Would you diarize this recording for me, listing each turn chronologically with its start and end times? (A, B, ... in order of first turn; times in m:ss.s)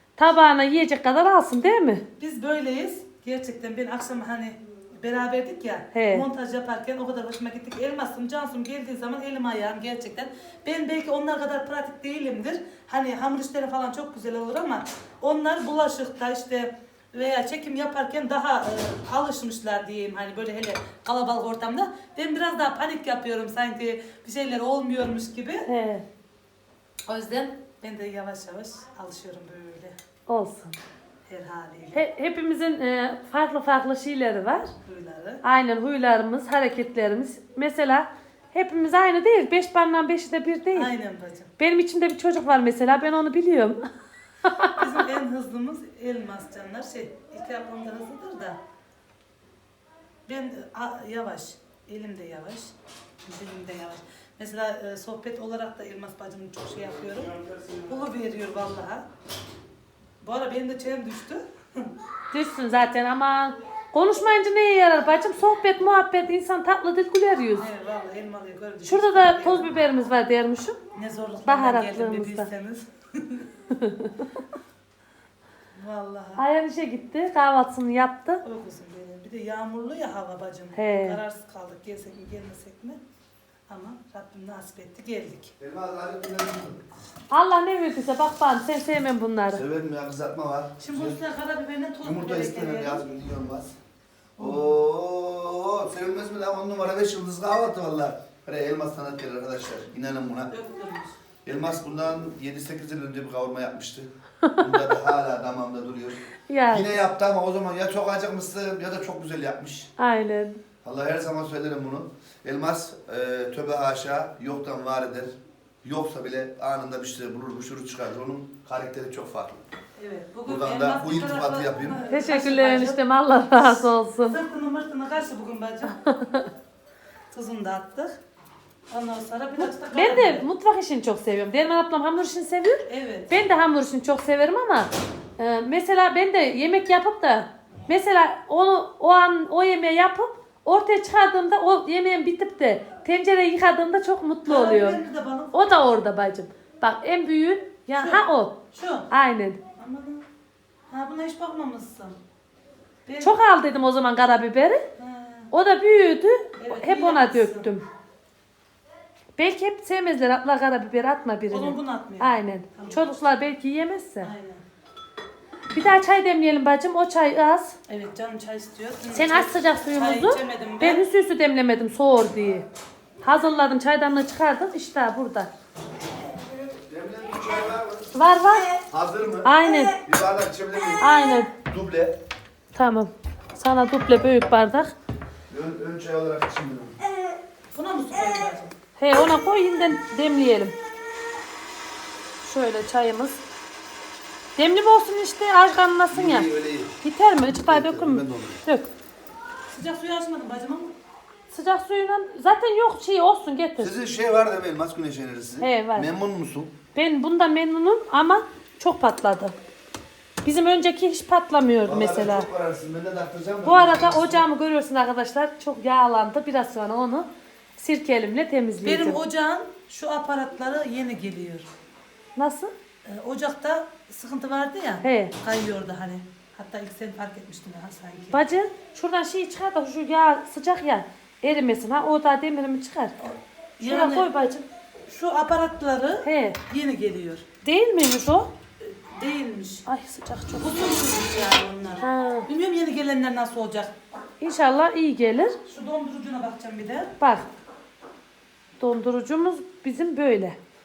0:00.2-0:02.0 A
0:02.2-0:25.7 B
0:05.9-0:06.2 A
0:25.7-0:26.0 A
0:27.1-0:27.6 A
0:27.6-0:30.0 B
0:30.3-0:30.8 A
0:31.2-0:32.0 B
0:31.9-0:34.7 A
0:34.8-0:35.4 B
0:35.4-0:40.9 A
0:40.7-0:41.5 B
0:41.6-0:43.9 A
0:44.4-0:44.9 A
0:44.8-0:48.6 B
0:50.3-0:52.7 B
0:53.2-0:59.0 B
1:00.2-1:01.9 B
1:02.3-1:07.7 A
1:07.6-1:09.7 B
1:08.8-1:10.8 A
1:11.0-1:13.5 B
1:11.4-1:12.5 A
1:13.7-1:14.3 A
1:15.7-1:16.4 B
1:16.4-1:18.4 A
1:18.4-1:23.0 B
1:20.8-1:21.2 A
1:23.7-1:25.5 B
1:25.6-1:26.8 C
1:27.3-1:29.6 A
1:29.5-1:31.2 C
1:30.8-1:33.0 B
1:32.0-1:33.8 C
1:34.4-1:34.7 B
1:34.4-1:40.5 C
1:40.5-1:41.2 B
1:41.4-1:49.9 C
1:46.5-1:46.9 A
1:50.0-1:50.6 A
1:50.8-1:59.6 C
2:00.0-2:03.0 B
2:00.4-2:02.0 C
2:02.1-2:04.4 A
2:03.8-2:06.0 B
2:05.8-2:06.5 A
2:07.3-2:08.2 B
2:08.9-2:10.4 B
2:09.6-2:25.0 A
2:12.8-2:13.3 B
2:24.4-2:25.5 B
2:25.5-2:28.6 A
2:27.9-2:29.1 B
2:29.1-2:29.6 A
2:29.8-2:30.2 B
2:30.9-2:32.2 B
2:33.0-2:33.4 B
2:33.2-2:34.8 A
2:35.0-2:35.5 B
2:35.5-2:37.8 A
2:36.6-2:37.7 B
2:39.4-2:44.3 A
2:41.5-2:43.1 B
2:44.2-2:44.6 B
2:45.7-2:47.8 A
2:47.9-2:51.0 B
2:49.1-2:52.7 A
2:53.2-2:55.5 A
2:56.7-2:58.1 C
2:58.1-2:58.8 A
2:58.8-3:02.2 C
2:59.4-3:00.0 A
3:01.0-3:01.5 A
3:02.7-3:04.9 A
3:05.5-3:07.0 C
3:07.7-3:08.7 B
3:09.0-3:10.7 A
3:12.4-3:13.4 A
3:14.6-3:16.5 A
3:16.1-3:18.6 C
3:17.0-3:18.9 A
3:19.7-3:20.9 B
3:21.5-3:23.9 A
3:23.8-3:26.7 C
3:25.6-3:26.1 A
3:26.9-3:29.5 A
3:30.4-3:32.5 A
3:31.8-3:34.4 C
3:33.6-3:39.2 A
3:38.8-3:41.7 B
3:42.4-3:42.7 A
3:43.0-3:48.4 B
3:45.0-3:45.3 A
3:48.3-3:53.2 A
3:53.2-3:54.3 B
3:53.8-3:54.6 A
3:55.1-3:57.4 B
3:56.2-3:56.6 A
3:57.6-3:58.5 A
3:58.8-3:59.8 B
3:59.9-4:01.0 A
4:00.6-4:04.0 B
4:02.0-4:02.4 A
4:04.4-4:05.6 A
4:05.7-4:07.1 B
4:07.2-4:07.5 A
4:08.8-4:10.6 A